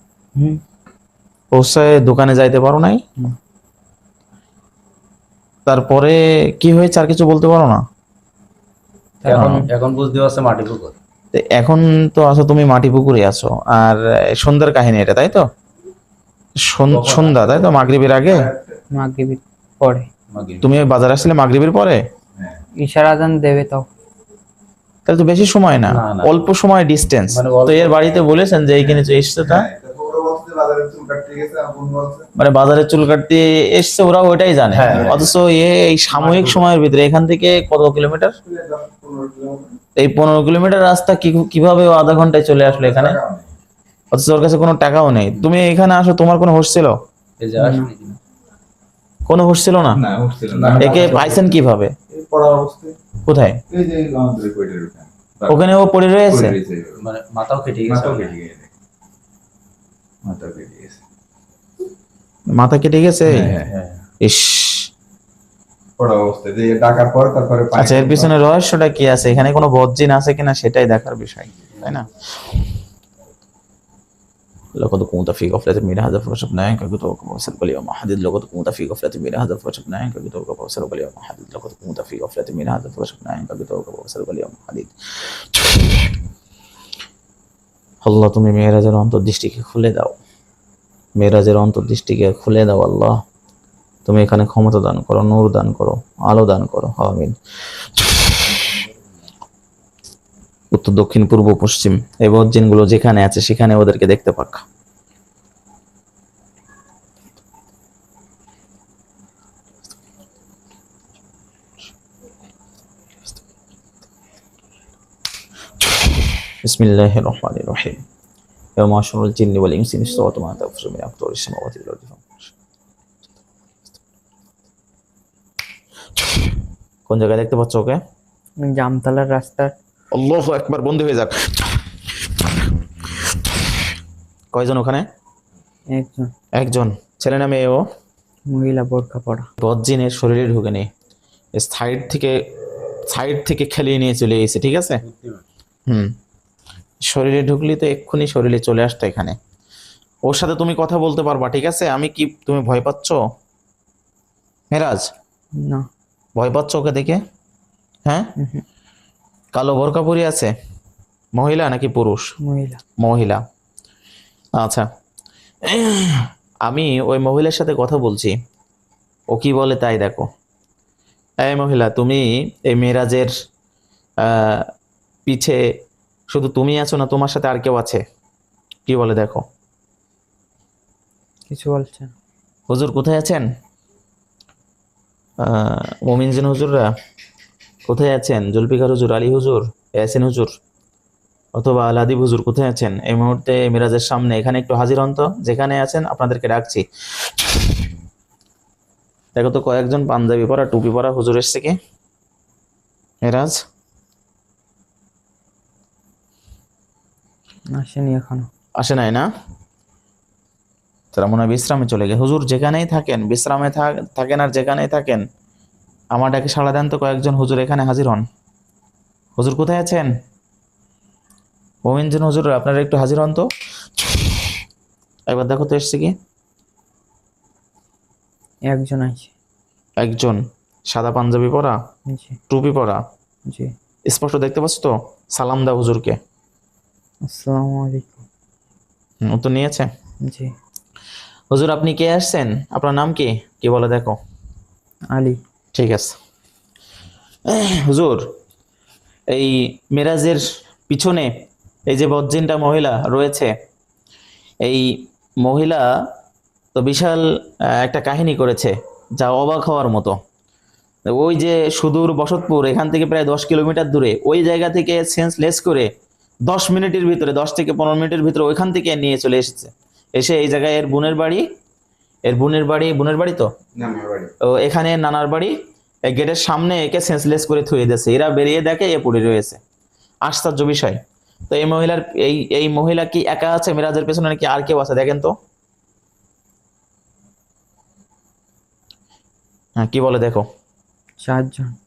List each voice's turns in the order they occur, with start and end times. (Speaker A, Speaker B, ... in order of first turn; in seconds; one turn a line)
Speaker A: 1.5-3.0
Speaker A: 5.7-7.8
Speaker B: 9.2-11.0
Speaker C: 9.3-9.7
Speaker A: 9.3-9.7
Speaker A: 11.3-15.4
Speaker A: 16.7-18.5
Speaker B: 16.9-17.7
Speaker D: 17.7-18.8
Speaker C: 18.9-20.1
Speaker B: 20.3-20.7
Speaker A: 20.6-22.0
Speaker C: 22.8-23.9
Speaker A: 25.1-29.7
Speaker B: 25.9-26.3
Speaker B: 27.3-28.0
Speaker D: 28.8-32.3
Speaker A: 32.4-38.4
Speaker B: 34.7-35.4
Speaker D: 34.8-35.3
Speaker B: 36.1-36.7
Speaker D: 38.4-39.8
Speaker A: 40.0-43.2
Speaker D: 42.6-43.5
Speaker A: 44.1-46.9
Speaker B: 47.4-48.2
Speaker C: 47.6-47.9
Speaker A: 49.3-50.0
Speaker D: 49.9-51.5
Speaker B: 50.5-51.3
Speaker A: 50.8-51.9
Speaker D: 52.1-53.0
Speaker A: 53.3-53.6
Speaker D: 53.7-55.6
Speaker A: 55.5-56.5
Speaker D: 56.3-57.0
Speaker B: 57.0-58.4
Speaker D: 57.7-58.7
Speaker D: 60.2-61.0
Speaker A: 62.5-63.5
Speaker D: 63.3-63.7
Speaker B: 63.5-64.0
Speaker A: 64.2-64.9
Speaker D: 66.0-68.3
Speaker A: 67.8-72.5
Speaker A: 74.8-86.1
Speaker A: 88.0-90.2
Speaker A: 91.2-93.1
Speaker A: 94.1-98.8
Speaker A: 100.7-104.6
Speaker A: 116.5-118.0
Speaker A: 118.8-122.5
Speaker A: 127.1-128.0
Speaker C: 128.6-129.8
Speaker A: 130.1-132.7
Speaker A: 133.2-133.5
Speaker A: 134.5-135.1
Speaker C: 135.9-136.3
Speaker A: 136.6-137.8
Speaker C: 138.5-139.5
Speaker A: 139.6-140.9
Speaker A: 141.6-142.3
Speaker A: 143.1-145.0
Speaker B: 145.0-145.4
Speaker A: 147.1-149.4
Speaker A: 150.3-153.2
Speaker A: 154.7-155.1
Speaker C: 155.6-155.9
Speaker A: 156.4-157.2
Speaker C: 158.4-158.6
Speaker A: 159.6-160.5
Speaker A: 161.3-162.3
Speaker C: 162.4-162.8
Speaker A: 163.0-163.4
Speaker A: 164.6-164.9
Speaker A: 165.7-168.3
Speaker A: 169.3-170.3
Speaker A: 171.4-173.3
Speaker A: 174.2-174.7
Speaker A: 175.3-175.6
Speaker A: 176.3-178.0
Speaker A: 178.9-179.4
Speaker C: 181.5-182.1
Speaker A: 182.7-183.4
Speaker A: 185.4-186.9
Speaker A: 187.9-190.6
Speaker A: 191.6-197.7
Speaker A: 199.3-201.8
Speaker A: 203.2-203.6
Speaker C: 207.7-208.5
Speaker A: 208.8-209.3
Speaker A: 211.1-215.2
Speaker A: 216.1-218.2
Speaker A: 219.4-220.1
Speaker A: 221.8-224.5
Speaker A: 225.3-226.2
Speaker C: 228.7-229.3
Speaker A: 230.0-231.8
Speaker C: 232.1-232.4
Speaker A: 232.5-233.0
Speaker C: 233.5-233.7
Speaker A: 234.1-236.2
Speaker C: 237.3-238.2
Speaker A: 239.2-239.9
Speaker C: 240.2-240.5
Speaker A: 241.5-244.2
Speaker C: 245.1-245.4
Speaker A: 245.8-246.2
Speaker A: 247.5-248.3
Speaker A: 249.3-251.3
Speaker A: 251.9-253.5
Speaker A: 254.6-255.8
Speaker A: 256.8-260.2
Speaker A: 261.1-265.9
Speaker A: 266.5-271.4
Speaker A: 272.3-273.5
Speaker D: 273.8-274.3
Speaker A: 274.4-275.5
Speaker A: 276.1-279.6
Speaker A: 280.2-285.3
Speaker A: 289.8-290.5
Speaker C: 291.2-291.7